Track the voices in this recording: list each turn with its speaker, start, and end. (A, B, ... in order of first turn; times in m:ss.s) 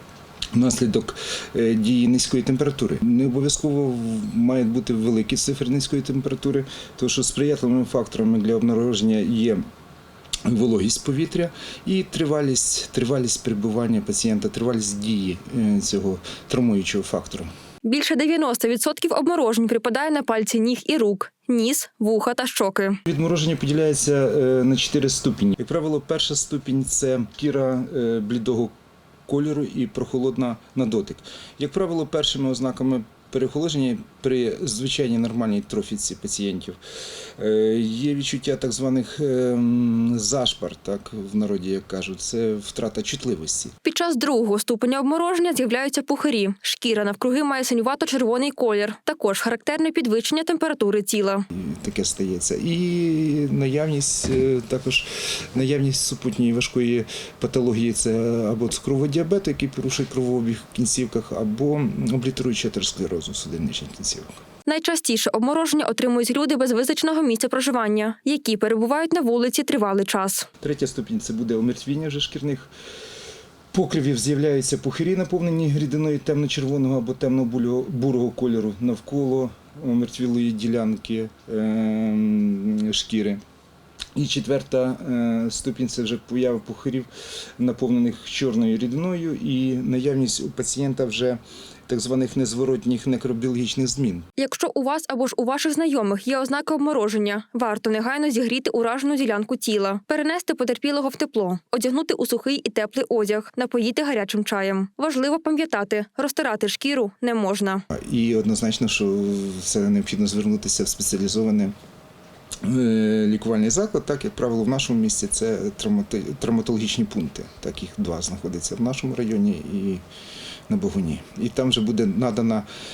0:00.6-0:09.6 A
0:10.5-0:17.5 A
0:17.8-0:23.0 B
0:23.1-0:28.7 A
0:29.3-0:36.8 A
0:37.4-0:43.7 A
0:43.8-0:51.5 B
0:51.5-1:04.4 A
1:04.7-1:10.5 B
1:10.6-1:12.7 A
1:13.7-1:23.4 A
1:24.2-1:27.1 A
1:27.6-1:34.3 A
1:34.4-1:47.8 B
1:47.9-1:51.7 A
1:52.6-2:00.0 A
2:00.7-2:02.7 A